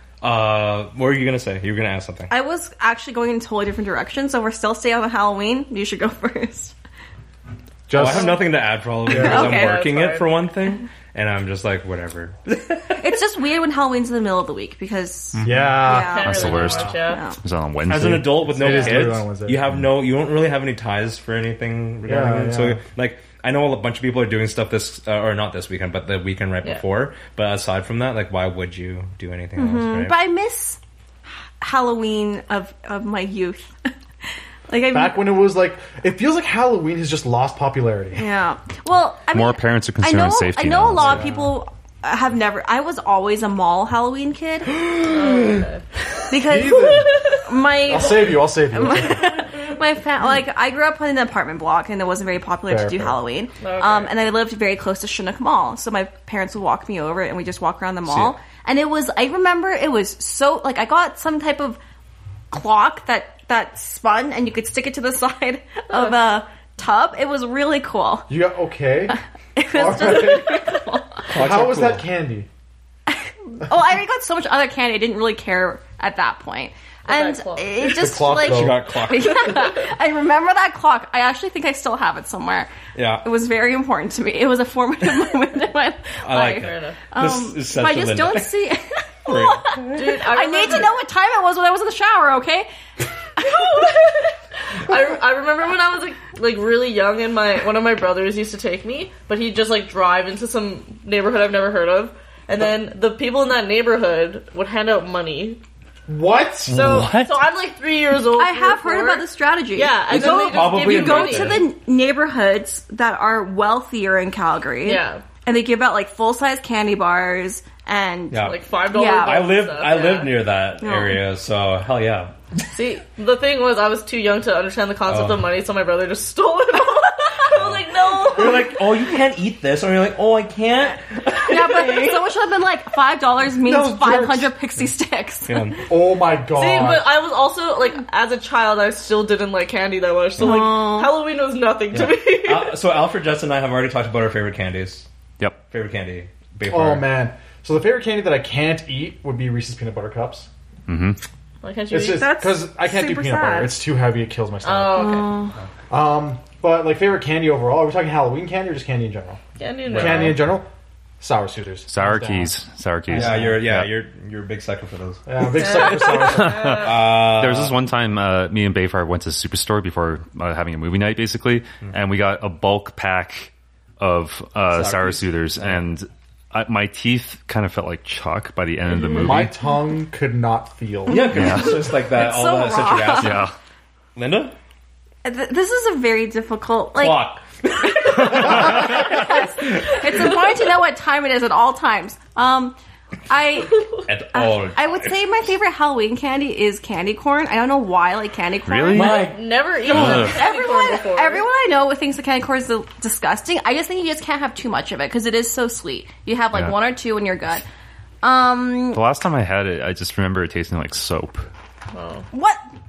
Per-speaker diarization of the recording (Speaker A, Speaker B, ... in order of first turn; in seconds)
Speaker A: 0.2-2.3, 7.9-13.1, 17.9-30.2, 44.7-45.7, 58.0-58.3, 71.3-72.0, 78.3-79.7, 82.9-83.2, 86.2-88.6, 89.2-89.7, 110.1-111.7, 118.3-118.6, 119.2-122.3, 125.0-125.5, 127.5-132.2, 135.5-135.8, 141.9-145.1, 145.7-147.1, 159.9-160.4, 163.1-165.2, 166.7-167.8, 174.7-175.8, 181.1-183.5, 184.1-184.5, 186.9-190.3, 194.0-195.1, 198.9-200.3
Speaker B: 2.3-6.7, 9.1-9.9, 12.9-17.4, 18.6-19.1, 29.6-30.8, 31.6-33.7, 34.7-35.2, 38.1-44.8, 46.3-61.8, 62.5-68.3, 69.1-71.2, 73.1-92.7, 93.4-93.9, 108.3-119.5, 120.8-121.2, 131.4-135.7, 140.4-141.2, 152.1-153.8, 154.9-155.5, 181.5-183.5, 185.2-187.3, 187.8-192.8, 193.3-207.6, 208.2-209.0, 212.3-212.6
Speaker C: 7.9-8.5, 9.1-9.6, 15.4-16.8, 18.4-19.6, 22.0-22.8, 34.9-38.2, 41.0-41.5, 46.4-47.2, 47.9-49.4, 52.7-53.2, 68.3-72.5, 77.8-78.8, 106.1-106.9, 133.6-134.5, 135.9-137.1, 146.7-150.5, 151.9-155.2, 155.9-160.7, 161.2-162.5, 163.1-163.6, 165.3-166.9, 179.2-181.4
Speaker D: 9.1-10.3, 15.8-17.2, 45.0-45.8, 47.0-47.5, 53.6-54.1, 77.1-77.8, 86.4-87.1, 89.9-90.9, 93.4-105.6, 106.7-111.6, 114.8-115.2, 118.4-120.4, 122.7-128.8, 136.5-142.7, 151.6-152.2, 154.6-155.4, 159.6-160.4, 165.6-166.9, 199.0-201.4, 211.9-212.2
Speaker E: 16.2-18.5, 39.3-41.2, 106.7-107.5, 150.9-151.2, 161.9-163.9, 166.2-179.5, 181.3-181.9, 183.2-183.5, 188.3-189.1, 198.7-199.2, 199.9-200.4, 206.5-206.8, 208.9-211.5